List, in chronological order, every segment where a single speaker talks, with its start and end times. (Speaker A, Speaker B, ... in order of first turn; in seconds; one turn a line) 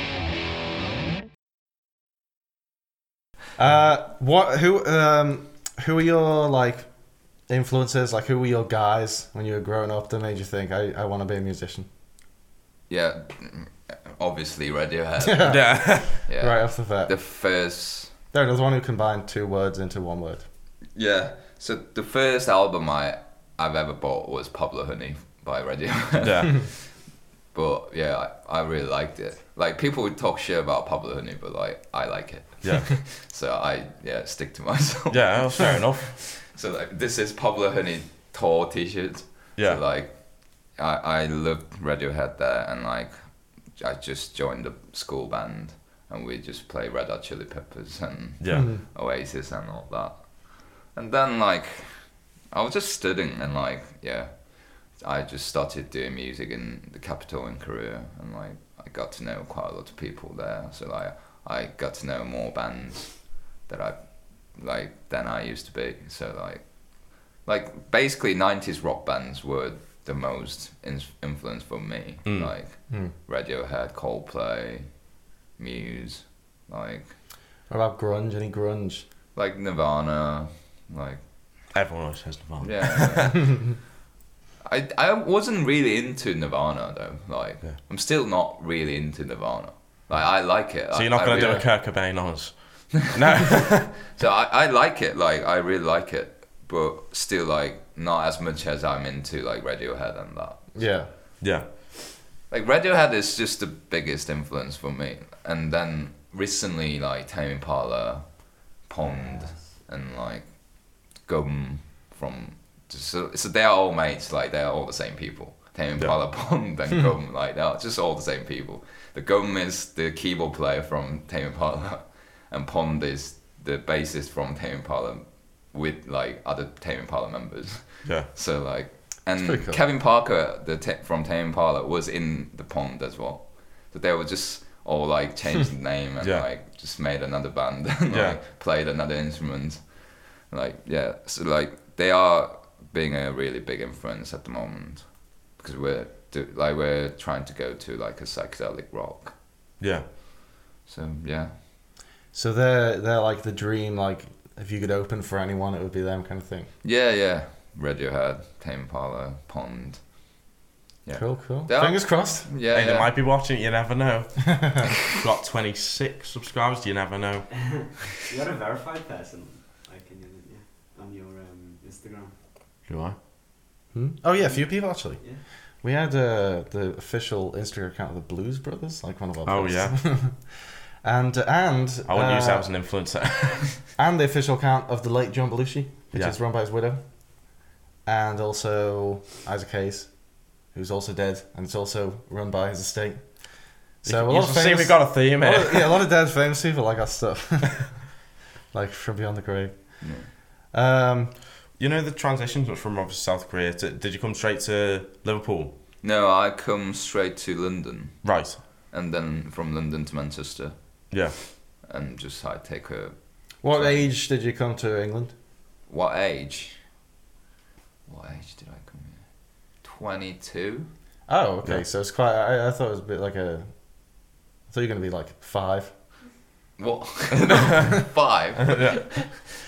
Speaker A: 3.6-11.9
Speaker B: 12.9-15.7
Speaker A: 15.2-17.1
Speaker C: 15.4-16.2
Speaker B: 16.2-18.1
Speaker A: 18.3-20.4
Speaker B: 20.9-26.9
Speaker C: 26.2-26.5
Speaker B: 27.5-40.1
Speaker C: 32.6-32.9
Speaker C: 35.1-36.1
Speaker B: 40.7-50.3
Speaker C: 48.4-48.7
Speaker A: 48.5-48.8
Speaker B: 50.8-74.9
Speaker C: 72.2-72.5
Speaker B: 75.6-77.1
Speaker A: 77.7-79.0
Speaker B: 79.3-81.2
Speaker C: 81.7-83.3
Speaker B: 82.6-83.5
Speaker B: 84.6-91.7
Speaker C: 90.9-93.9
Speaker A: 91.2-91.7
Speaker B: 92.9-100.9
Speaker A: 100.7-101.1
Speaker C: 101.4-101.7
Speaker B: 102.5-149.3
Speaker A: 129.4-129.8
Speaker C: 136.2-136.5
Speaker C: 138.1-138.4
Speaker C: 149.8-150.1
Speaker B: 150.8-151.6
Speaker A: 152.3-156.7
Speaker B: 156.8-160.1
Speaker B: 161.0-163.2
Speaker A: 161.1-162.5
Speaker C: 162.7-167.8
Speaker D: 168.2-172.3
Speaker C: 172.9-173.2
Speaker A: 173.9-182.8
Speaker D: 174.4-175.4
Speaker C: 179.4-180.1
Speaker C: 182.1-183.7
Speaker A: 184.0-201.3
Speaker C: 194.0-196.0
Speaker B: 200.0-200.3
Speaker C: 201.8-205.7
Speaker B: 206.0-208.3
Speaker C: 208.2-208.6
Speaker B: 208.9-210.7
Speaker C: 211.1-211.4
Speaker B: 211.8-213.2
Speaker A: 213.6-215.3
Speaker B: 213.7-214.1
Speaker B: 215.9-216.8
Speaker B: 218.1-219.2
Speaker B: 219.8-220.9
Speaker A: 221.3-225.9
Speaker B: 226.8-229.3
Speaker C: 228.6-229.1